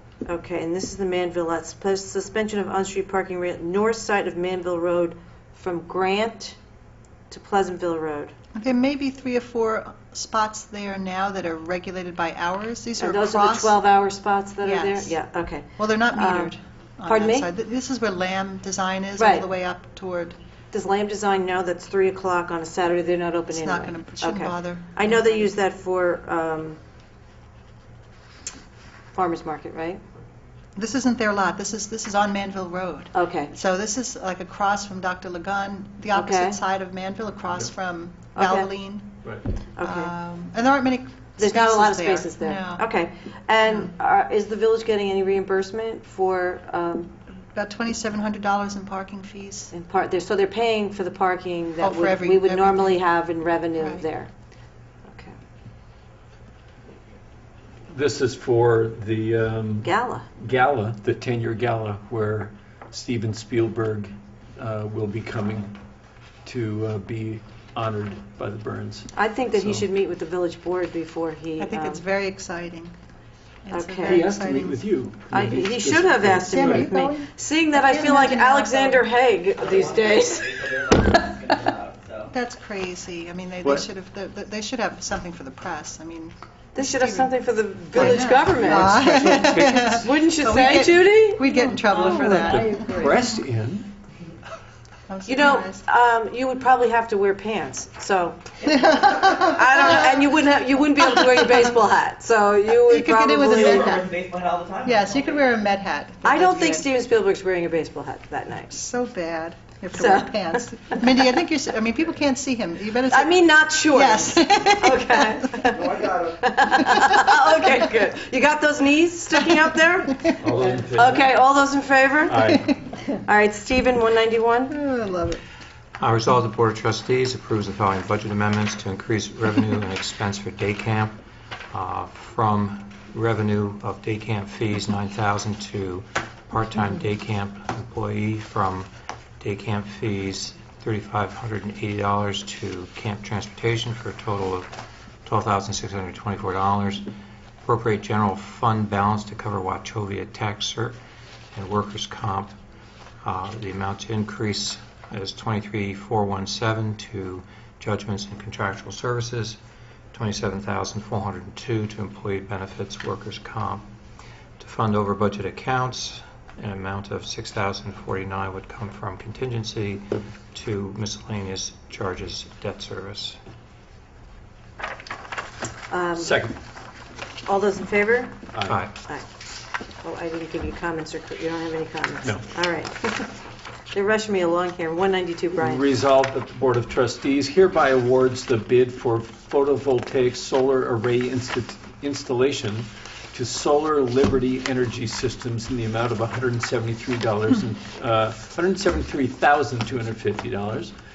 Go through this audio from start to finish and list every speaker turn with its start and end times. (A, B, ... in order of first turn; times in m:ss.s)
0:00.2-0:06.6 A
0:07.3-0:08.3 A
0:08.5-0:13.8 B
0:13.0-0:16.5 A
0:14.6-0:15.2 B
0:15.8-0:20.4 B
0:17.0-0:17.5 A
0:19.2-0:19.5 A
0:20.7-0:26.8 A
0:23.5-0:25.5 B
0:29.1-0:30.0 A
0:30.8-0:39.2 B
0:33.1-0:33.5 A
0:36.1-0:36.6 A
0:38.3-0:38.7 A
0:39.8-0:40.1 A
0:39.8-0:42.8 B
0:41.4-0:47.1 A
0:43.7-0:43.9 B
0:47.5-0:49.7 B
0:49.7-0:54.3 A
0:51.8-0:53.0 B
0:53.8-0:54.0 B
0:55.1-0:55.3 A
0:57.9-1:05.8 C
0:59.8-1:00.3 A
1:06.4-1:09.8 C
1:09.1-1:12.0 A
1:11.6-1:12.9 B
1:13.6-1:14.8 B
1:13.7-1:14.3 A
1:14.0-1:17.0 C
1:15.3-1:21.2 A
1:16.4-1:19.0 B
1:19.8-1:22.2 D
1:22.3-1:27.3 B
1:26.7-1:29.3 A
1:27.9-1:33.3 B
1:28.0-1:30.1 C
1:29.8-1:32.3 A
1:31.9-1:33.2 D
1:32.0-1:33.9 C
1:35.1-1:35.8 B
1:35.3-1:44.0 A
1:38.7-1:40.2 B
1:41.0-1:41.7 B
1:42.9-1:44.2 B
1:43.7-1:45.1 D
1:44.8-1:46.9 B
1:46.2-1:48.8 A
1:48.7-1:55.6 B
1:49.9-1:50.6 A
1:53.1-2:04.7 A
1:56.8-1:57.2 B
2:00.4-2:01.4 C
2:02.2-2:02.7 C
2:04.7-2:05.4 B
2:06.0-2:27.1 E
2:27.6-2:31.0 E
2:31.5-2:32.6 E
2:33.2-2:39.6 E
2:40.1-2:43.9 E
2:44.6-2:53.4 E
2:55.9-2:56.4 A
2:56.2-2:56.6 C
2:57.4-2:58.4 A
2:58.5-2:58.8 C
2:58.7-2:59.0 E
3:00.0-3:03.4 A
3:03.9-3:05.8 A
3:05.6-3:20.9 C